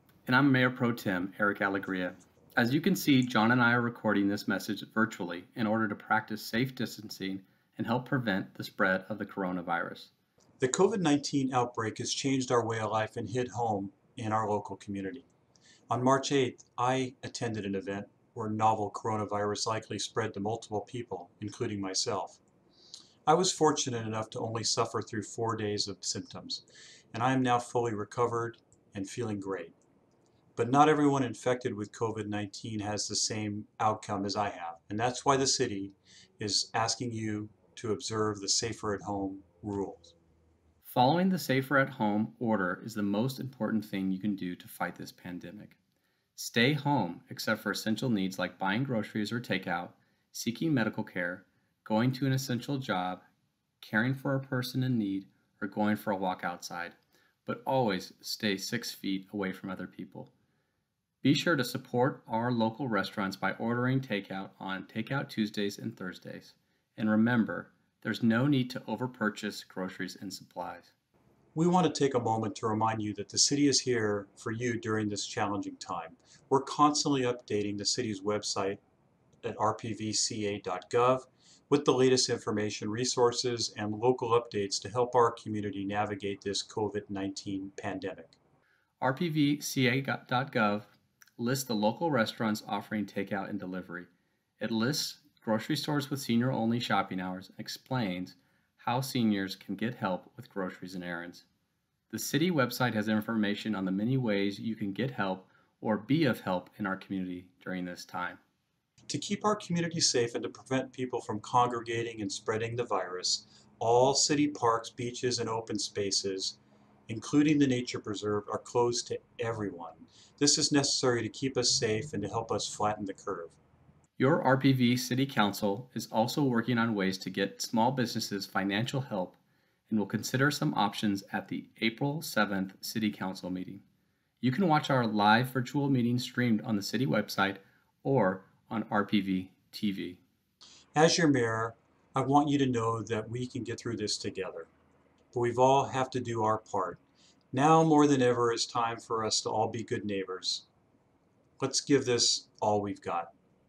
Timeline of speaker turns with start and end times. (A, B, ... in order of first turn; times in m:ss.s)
0:00.3-0:10.1 A
0:10.6-0:15.2 B
0:15.9-0:22.4 B
0:23.2-0:29.7 B
0:30.6-0:40.1 B
0:40.8-0:45.7 A
0:46.4-0:53.2 A
0:53.8-0:56.9 A
0:57.4-1:00.3 A
1:01.2-1:10.9 A
1:11.5-1:18.8 B
1:19.4-1:28.4 B
1:29.0-1:34.1 A
1:34.6-1:41.4 A
1:42.1-1:48.4 A
1:49.1-2:03.6 B
2:04.2-2:09.4 A
2:09.9-2:13.8 A
2:14.4-2:20.2 A
2:21.0-2:24.7 B
2:25.3-2:27.0 B
2:27.5-2:30.7 B
2:31.6-2:33.3 B